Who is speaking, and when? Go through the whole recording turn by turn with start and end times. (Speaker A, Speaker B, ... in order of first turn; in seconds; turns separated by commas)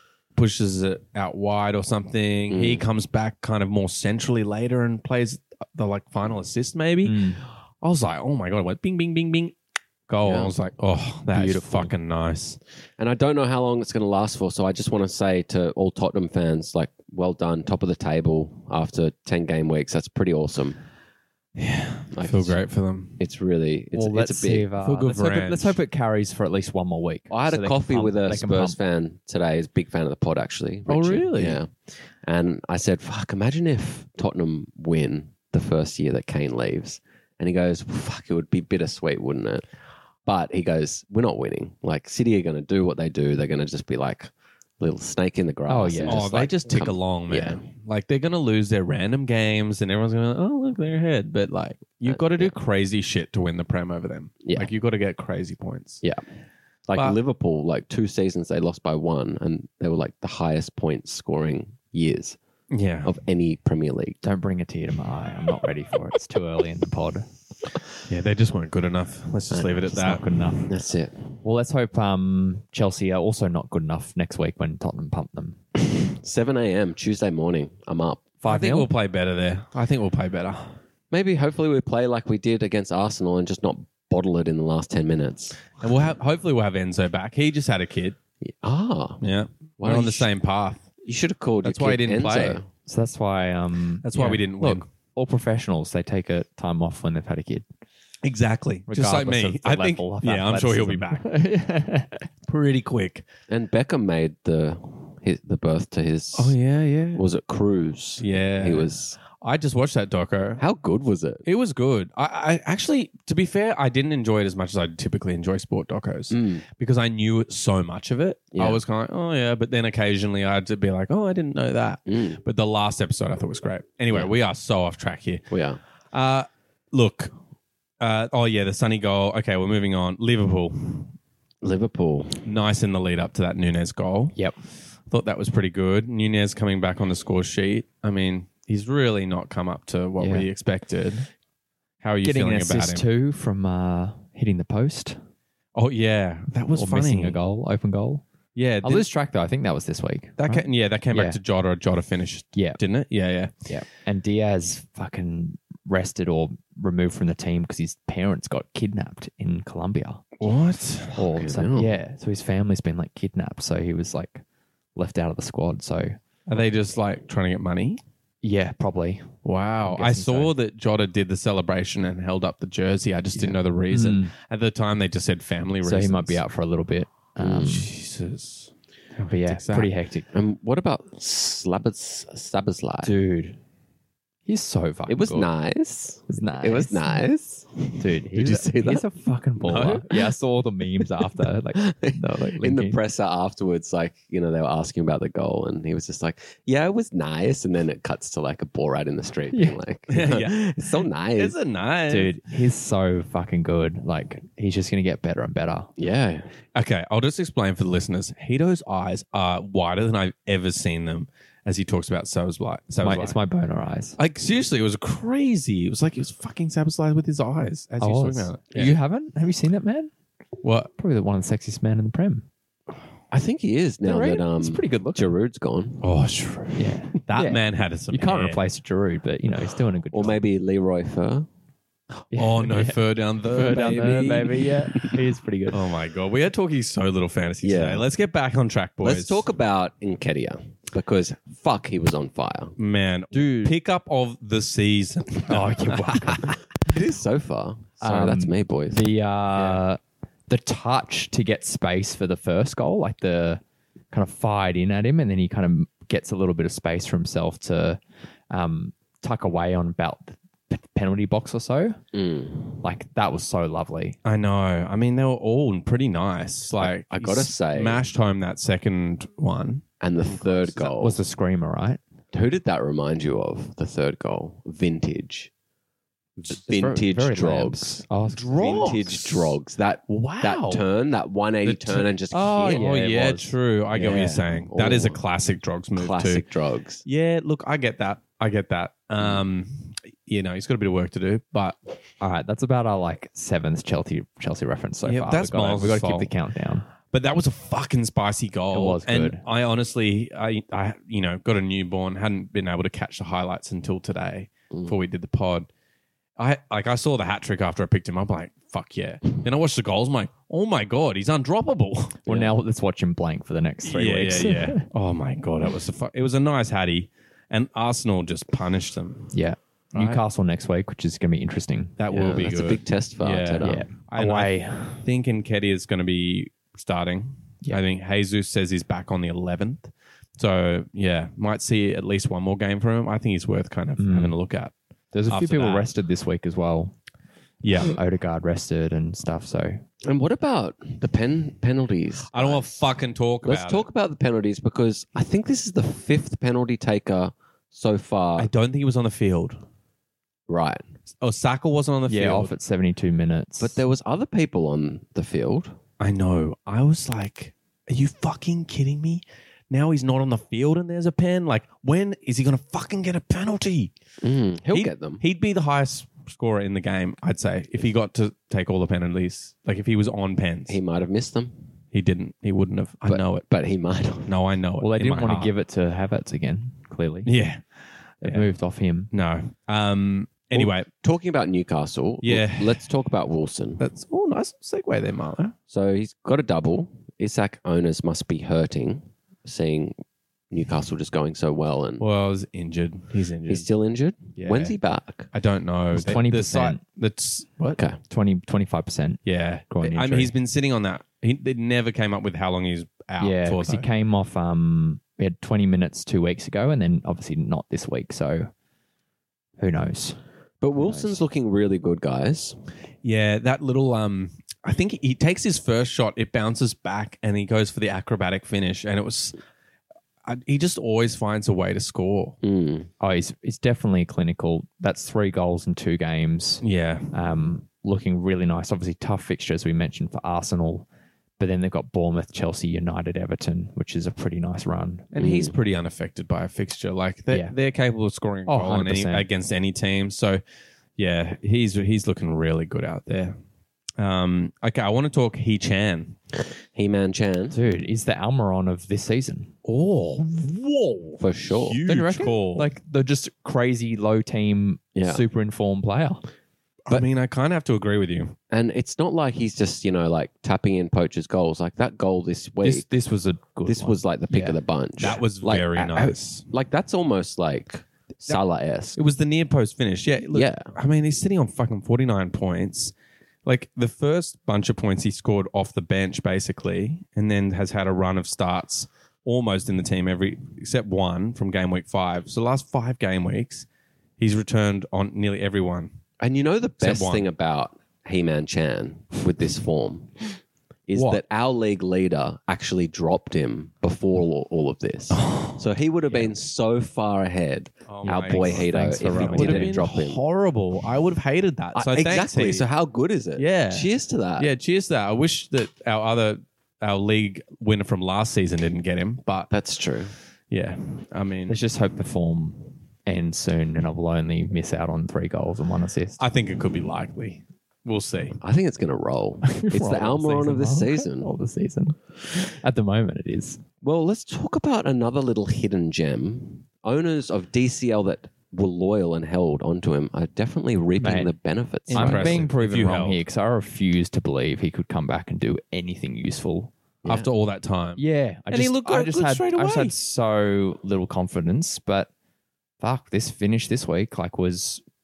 Speaker A: 0.3-7.3, Speaker B: 2.5-2.8, Speaker C: 7.0-7.4, Speaker A: 7.8-9.5, Speaker A: 10.1-12.6, Speaker B: 10.2-10.5, Speaker C: 11.3-11.9, Speaker B: 13.0-20.8, Speaker A: 21.6-23.2, Speaker B: 22.1-22.6, Speaker B: 23.2-24.7, Speaker C: 23.9-28.8, Speaker A: 24.8-25.8, Speaker B: 27.3-39.6, Speaker A: 30.9-31.6, Speaker B: 40.2-47.6, Speaker C: 45.7-46.5, Speaker A: 46.0-56.0, Speaker B: 52.0-52.5, Speaker B: 54.4-54.7, Speaker B: 56.9-62.4, Speaker A: 62.7-63.1, Speaker B: 63.0-64.2, Speaker C: 64.2-67.3, Speaker A: 68.1-70.2, Speaker B: 69.5-69.8, Speaker C: 69.9-70.7, Speaker B: 70.7-71.4, Speaker C: 71.4-75.6, Speaker B: 75.8-78.3, Speaker C: 78.4-78.9, Speaker A: 78.5-80.8, Speaker B: 81.1-85.6, Speaker A: 85.8-88.2, Speaker B: 88.4-89.2, Speaker A: 89.2-90.8, Speaker B: 89.8-90.3, Speaker B: 91.0-92.7, Speaker A: 91.6-92.6, Speaker C: 92.8-97.6, Speaker A: 94.0-94.8, Speaker A: 98.2-101.3, Speaker C: 98.9-102.3, Speaker A: 102.5-103.2, Speaker B: 103.5-106.5, Speaker A: 106.3-107.2, Speaker B: 107.1-109.2, Speaker A: 108.2-110.6, Speaker B: 110.6-111.4, Speaker A: 111.5-125.5, Speaker B: 116.3-116.6, Speaker B: 118.5-118.8, Speaker B: 122.1-122.4, Speaker B: 125.5-125.8, Speaker A: 126.1-127.3, Speaker A: 128.0-131.1, Speaker B: 131.6-132.4, Speaker A: 132.4-134.4, Speaker A: 135.1-141.3, Speaker C: 140.2-140.5, Speaker A: 142.0-143.0, Speaker C: 142.2-145.2, Speaker A: 145.7-147.4, Speaker C: 146.7-148.2, Speaker A: 148.6-149.1, Speaker C: 148.8-151.4, Speaker A: 150.4-153.5, Speaker C: 153.7-160.4, Speaker A: 160.4-161.2, Speaker C: 161.1-164.4, Speaker B: 161.3-161.9, Speaker C: 164.9-166.2, Speaker A: 166.5-168.0, Speaker C: 168.4-170.5, Speaker A: 169.4-176.4, Speaker C: 173.3-174.3, Speaker C: 175.8-177.9, Speaker B: 177.4-177.7, Speaker A: 177.6-179.9, Speaker C: 179.2-180.3, Speaker B: 180.3-183.1, Speaker C: 183.0-183.6, Speaker C: 184.4-185.5, Speaker B: 185.1-189.0, Speaker C: 186.3-187.3, Speaker C: 188.0-193.0, Speaker B: 189.6-190.0, Speaker B: 191.7-201.5, Speaker C: 199.5-199.8, Speaker A: 200.1-200.7, Speaker A: 201.3-202.4, Speaker C: 202.1-205.9, Speaker B: 206.0-206.5, Speaker A: 206.7-213.3, Speaker C: 213.0-214.2, Speaker A: 214.2-219.0, Speaker C: 218.0-220.1, Speaker A: 220.6-220.9, Speaker C: 221.0-222.5, Speaker B: 223.3-226.0, Speaker C: 224.0-225.3, Speaker A: 226.0-228.6, Speaker C: 226.8-230.4, Speaker B: 230.1-231.5, Speaker C: 232.3-235.9, Speaker A: 232.3-234.7, Speaker A: 235.7-239.4, Speaker B: 237.6-238.1, Speaker B: 239.0-242.7, Speaker A: 242.8-246.4, Speaker C: 243.3-243.7, Speaker C: 245.5-246.6, Speaker B: 246.8-249.0, Speaker C: 248.0-258.0, Speaker C: 258.5-262.0, Speaker B: 262.1-262.8, Speaker C: 262.8-264.2, Speaker A: 264.2-270.9, Speaker B: 266.8-268.1, Speaker B: 270.0-271.2, Speaker C: 271.0-272.0, Speaker B: 272.3-275.5, Speaker B: 276.4-278.0, Speaker C: 276.5-279.0, Speaker A: 278.3-279.6, Speaker B: 278.6-282.8, Speaker A: 280.1-280.9, Speaker A: 281.6-286.4, Speaker C: 282.3-283.5, Speaker B: 283.9-285.2, Speaker B: 285.9-287.0, Speaker A: 287.0-291.8, Speaker C: 292.2-296.9, Speaker A: 295.0-296.3, Speaker A: 297.1-305.7, Speaker C: 298.7-299.4, Speaker A: 306.4-312.3, Speaker C: 312.3-314.9, Speaker A: 313.8-319.3, Speaker C: 319.3-321.9, Speaker A: 319.9-320.2, Speaker A: 322.0-334.7, Speaker B: 322.1-323.8, Speaker C: 323.6-325.0, Speaker C: 334.0-334.4, Speaker C: 335.1-336.9, Speaker A: 335.3-335.9, Speaker A: 337.6-338.0, Speaker C: 337.8-339.8, Speaker B: 340.0-342.9, Speaker A: 342.3-343.9, Speaker B: 343.4-348.5, Speaker A: 348.4-349.6, Speaker B: 350.5-350.9, Speaker A: 351.2-352.5, Speaker C: 352.1-353.8, Speaker B: 353.6-355.8, Speaker A: 356.0-363.9, Speaker B: 364.2-365.2, Speaker A: 364.7-370.8, Speaker B: 370.7-371.6, Speaker A: 371.9-373.5, Speaker B: 373.1-374.3, Speaker A: 374.2-375.5, Speaker C: 374.8-377.3, Speaker A: 377.2-377.6, Speaker A: 378.2-378.5, Speaker C: 378.2-379.1, Speaker A: 379.1-380.9, Speaker B: 380.5-383.8, Speaker A: 382.2-382.9, Speaker A: 383.8-385.5, Speaker B: 385.7-389.9, Speaker B: 390.5-392.0, Speaker A: 392.0-393.7, Speaker B: 393.5-395.3, Speaker C: 394.4-394.6, Speaker A: 394.5-394.7, Speaker A: 395.3-397.8, Speaker C: 395.9-396.8, Speaker C: 398.1-400.3, Speaker A: 399.2-403.8, Speaker C: 403.2-408.5, Speaker C: 409.6-410.2, Speaker B: 410.6-412.6, Speaker C: 410.8-411.2, Speaker A: 413.0-419.4, Speaker A: 420.2-422.4, Speaker B: 422.4-422.9, Speaker C: 423.0-430.9, Speaker A: 426.6-427.1, Speaker C: 431.4-435.1, Speaker A: 435.1-440.4, Speaker B: 435.2-435.5, Speaker C: 438.5-439.3, Speaker A: 441.0-443.4, Speaker A: 444.0-446.2, Speaker B: 446.7-447.6, Speaker C: 447.5-449.5, Speaker A: 449.6-452.7, Speaker B: 451.2-451.8, Speaker C: 451.8-456.2, Speaker B: 454.9-455.2, Speaker A: 456.9-458.4, Speaker B: 458.5-462.9, Speaker C: 462.6-464.6, Speaker B: 463.6-469.0, Speaker A: 465.0-466.4, Speaker A: 468.9-472.9, Speaker B: 470.3-470.7, Speaker A: 473.4-483.6, Speaker A: 484.2-485.9, Speaker B: 486.2-490.2, Speaker A: 486.8-487.3, Speaker B: 490.9-500.2, Speaker A: 490.9-491.2, Speaker A: 495.1-495.6, Speaker A: 497.9-502.7, Speaker C: 498.0-499.8, Speaker B: 501.7-504.5, Speaker A: 503.4-509.5, Speaker B: 509.5-510.1, Speaker A: 510.5-511.6, Speaker C: 511.5-516.2, Speaker A: 516.2-518.4, Speaker B: 518.4-521.3, Speaker C: 519.4-523.6, Speaker B: 523.8-532.5, Speaker C: 531.0-531.3, Speaker A: 531.9-533.2, Speaker C: 531.9-536.7, Speaker A: 537.0-539.9, Speaker C: 538.0-542.1, Speaker C: 542.8-544.8